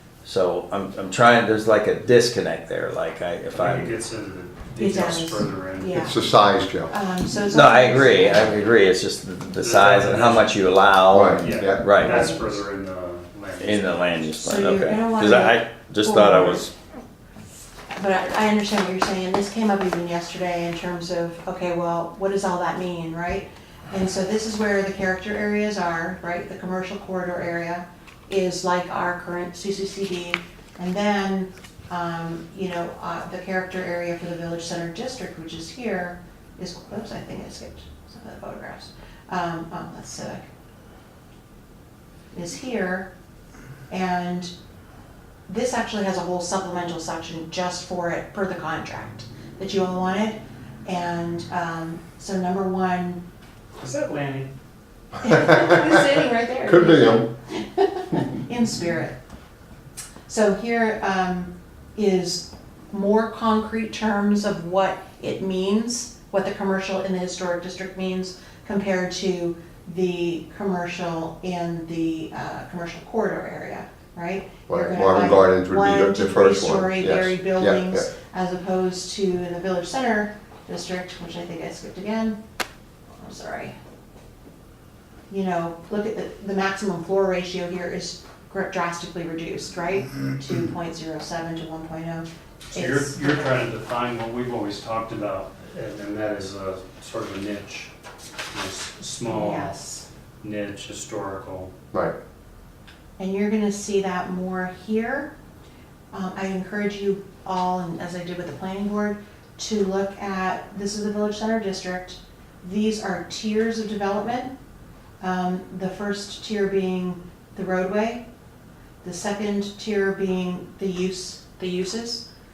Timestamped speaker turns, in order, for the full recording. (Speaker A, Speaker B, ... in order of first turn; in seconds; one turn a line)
Speaker A: 0.2-4.0
Speaker B: 3.5-6.0
Speaker C: 4.8-6.2
Speaker D: 5.9-6.9
Speaker C: 6.9-8.6
Speaker A: 7.5-12.3
Speaker B: 9.6-10.5
Speaker D: 11.1-12.2
Speaker B: 11.4-14.3
Speaker C: 12.0-12.5
Speaker A: 13.6-16.7
Speaker C: 14.4-16.7
Speaker C: 17.9-40.5
Speaker C: 42.3-43.1
Speaker C: 43.9-44.5
Speaker C: 45.5-53.2
Speaker B: 53.8-54.5
Speaker C: 55.2-59.2
Speaker D: 55.3-57.3
Speaker C: 60.3-82.4
Speaker D: 74.7-78.1
Speaker C: 83.2-83.7
Speaker C: 85.3-93.6
Speaker B: 92.7-97.9
Speaker B: 98.5-99.7
Speaker C: 99.2-100.0
Speaker B: 100.4-101.7
Speaker C: 103.2-105.3
Speaker C: 106.1-114.5
Speaker C: 115.2-118.2
Speaker C: 119.0-122.2